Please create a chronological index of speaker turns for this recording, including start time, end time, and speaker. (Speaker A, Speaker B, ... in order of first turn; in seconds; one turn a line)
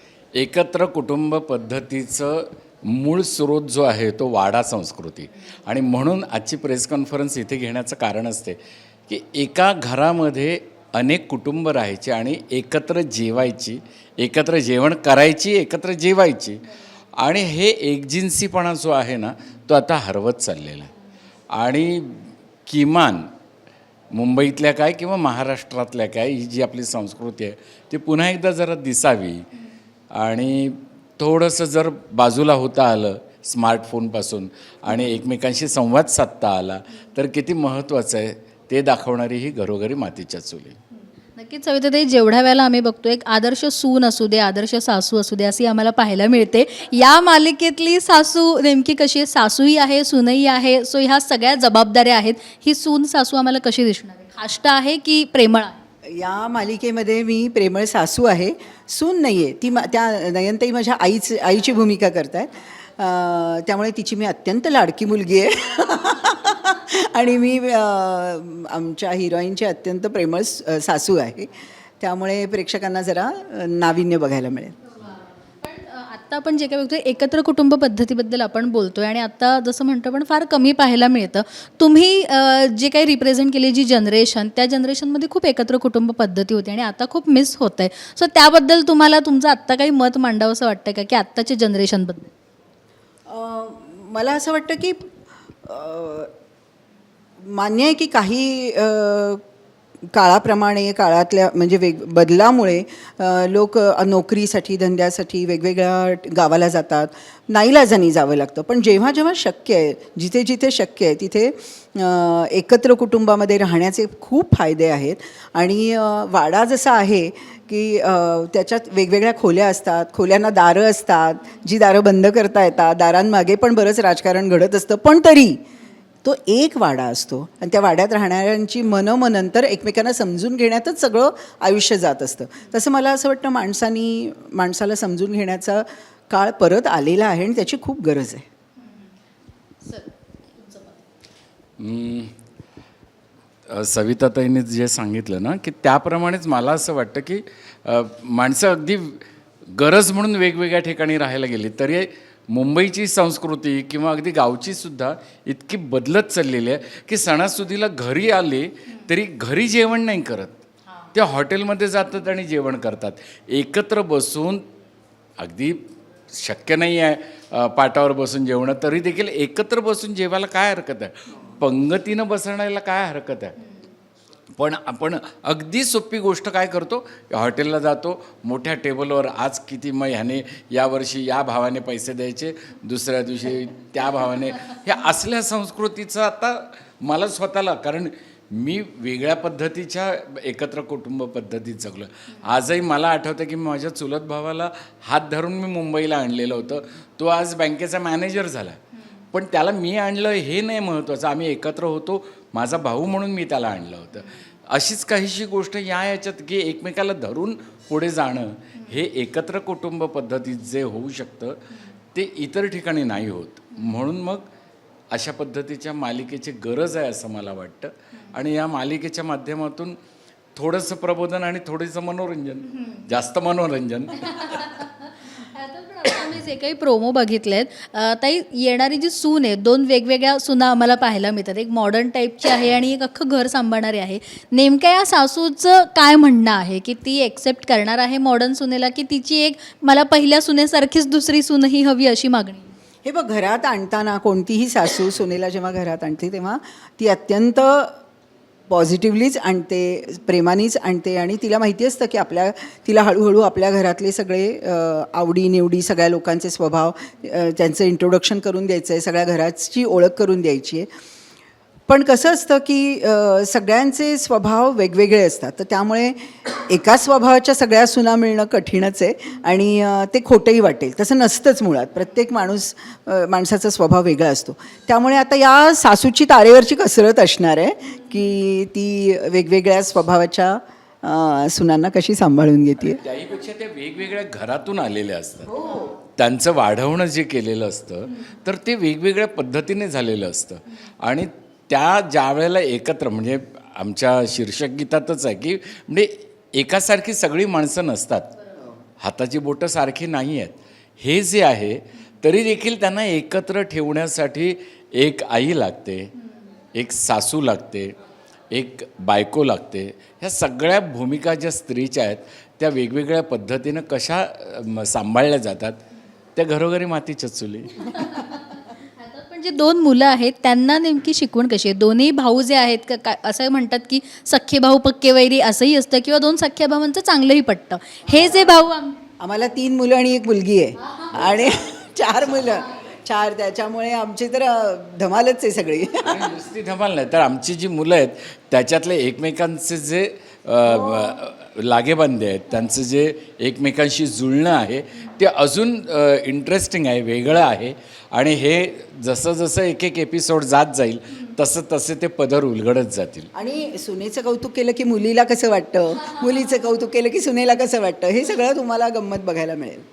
Speaker A: 0.3-16.6
Speaker A: 17.2-20.9
Speaker A: 21.5-23.3
Speaker A: 24.1-29.5
Speaker A: 30.1-40.8
Speaker B: 41.4-55.8
Speaker C: 56.1-71.5
Speaker C: 72.0-74.8
Speaker B: 75.0-92.3
Speaker C: 93.3-95.0
Speaker C: 95.6-96.3
Speaker C: 97.5-99.4
Speaker C: 100.1-125.6
Speaker C: 126.2-138.4
Speaker B: 138.8-139.1
Speaker B: 139.8-141.0
Speaker A: 141.8-142.3
Speaker A: 143.7-160.6
Speaker A: 161.1-164.6
Speaker A: 165.4-173.6
Speaker A: 174.6-198.8
Speaker A: 199.3-211.6
Speaker A: 212.1-214.5
Speaker A: 215.1-220.0
Speaker A: 220.6-224.6
Speaker B: 222.7-223.1
Speaker B: 224.2-242.7
Speaker C: 243.0-248.0
Speaker C: 248.7-260.9
Speaker C: 261.9-283.0
Speaker A: 282.8-285.5
Speaker C: 285.5-285.9
Speaker A: 286.2-298.3
Speaker A: 299.0-306.1
Speaker A: 306.7-307.9
Speaker A: 308.5-315.8
Speaker A: 316.4-318.0
Speaker B: 317.8-329.0
Speaker C: 329.2-336.3
Speaker B: 330.8-331.2
Speaker A: 336.0-353.3
Speaker C: 340.6-341.2
Speaker C: 353.3-359.8